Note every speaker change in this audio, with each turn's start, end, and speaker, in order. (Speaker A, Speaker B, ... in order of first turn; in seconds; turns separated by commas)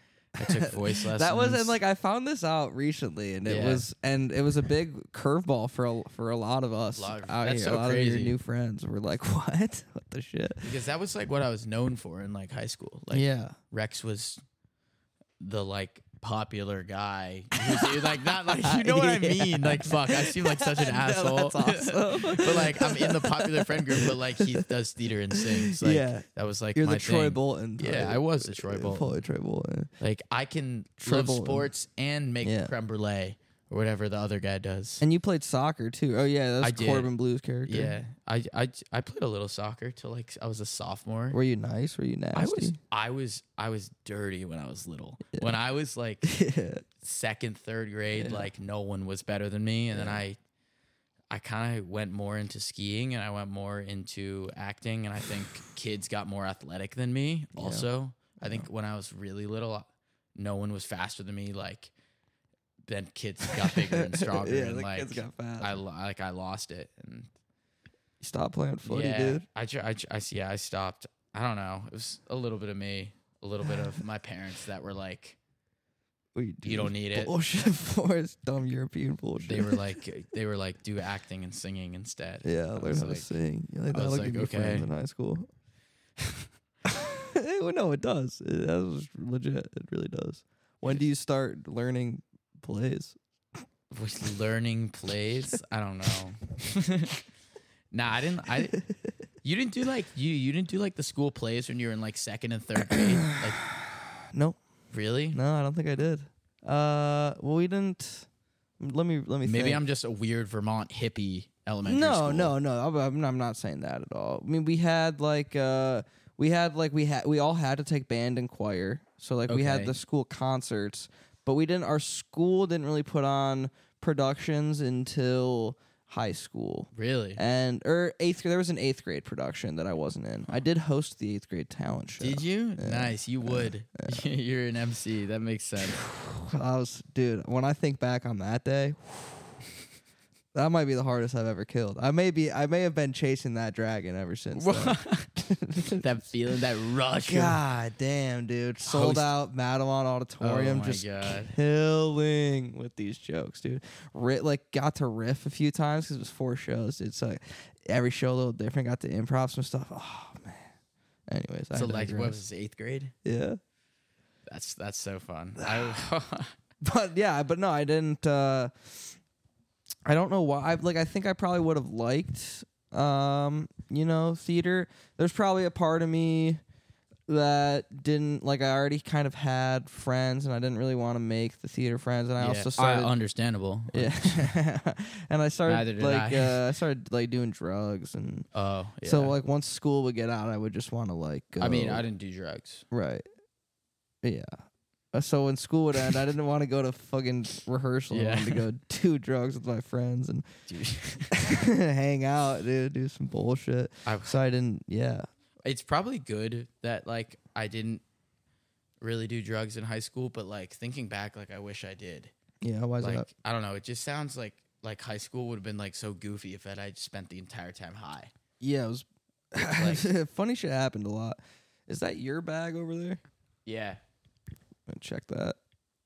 Speaker A: 0.3-1.8, Speaker B: 0.4-10.7, Speaker A: 3.5-3.9, Speaker A: 6.9-8.3, Speaker A: 10.6-14.4, Speaker B: 13.1-13.6, Speaker A: 15.4-29.2, Speaker B: 17.5-24.7, Speaker B: 25.3-29.9, Speaker A: 30.0-35.0, Speaker B: 31.0-31.7, Speaker B: 32.4-32.7, Speaker B: 35.0-38.0, Speaker A: 36.6-37.1, Speaker A: 37.6-41.4, Speaker B: 41.3-42.8, Speaker A: 42.3-46.3, Speaker B: 45.3-45.6, Speaker B: 46.2-46.8, Speaker A: 47.0-50.4, Speaker B: 48.1-48.5, Speaker B: 49.9-50.2, Speaker A: 51.3-61.9, Speaker B: 57.5-57.9, Speaker B: 58.4-58.6, Speaker A: 62.9-67.3, Speaker B: 63.5-65.8, Speaker B: 68.2-69.4, Speaker A: 68.8-75.4, Speaker B: 76.3-80.0, Speaker A: 76.6-77.3, Speaker A: 79.4-83.3, Speaker B: 82.4-85.5, Speaker A: 83.9-84.9, Speaker B: 86.8-93.2, Speaker A: 93.9-97.2, Speaker A: 97.9-98.8, Speaker A: 99.4-103.6, Speaker B: 102.8-104.6, Speaker A: 104.9-105.4, Speaker B: 105.3-108.3, Speaker B: 108.8-109.8, Speaker A: 109.4-112.5, Speaker B: 111.8-134.2, Speaker A: 119.5-120.0, Speaker A: 126.9-127.4, Speaker A: 132.2-136.0, Speaker B: 135.9-139.5, Speaker B: 140.5-146.0, Speaker A: 144.6-145.3, Speaker A: 145.9-147.6, Speaker B: 147.2-160.7, Speaker A: 148.8-149.3, Speaker A: 150.4-151.5, Speaker B: 161.3-162.4, Speaker A: 161.7-163.1, Speaker B: 163.2-163.6, Speaker A: 164.4-166.5, Speaker B: 166.8-169.1, Speaker B: 170.1-176.6, Speaker B: 177.3-183.1, Speaker A: 182.4-184.5, Speaker B: 183.9-188.5, Speaker A: 185.7-186.6, Speaker A: 188.5-189.3, Speaker B: 189.0-192.0, Speaker A: 191.6-192.8, Speaker B: 192.9-193.2, Speaker B: 194.2-194.6, Speaker B: 195.1-200.6, Speaker A: 198.1-198.6, Speaker A: 200.7-201.3, Speaker B: 201.3-205.3, Speaker A: 204.1-204.4, Speaker A: 205.6-208.0, Speaker A: 209.0-212.3, Speaker B: 212.6-213.3, Speaker A: 213.0-218.3, Speaker B: 218.6-223.2, Speaker A: 219.6-220.1, Speaker A: 223.7-224.0, Speaker B: 224.9-225.6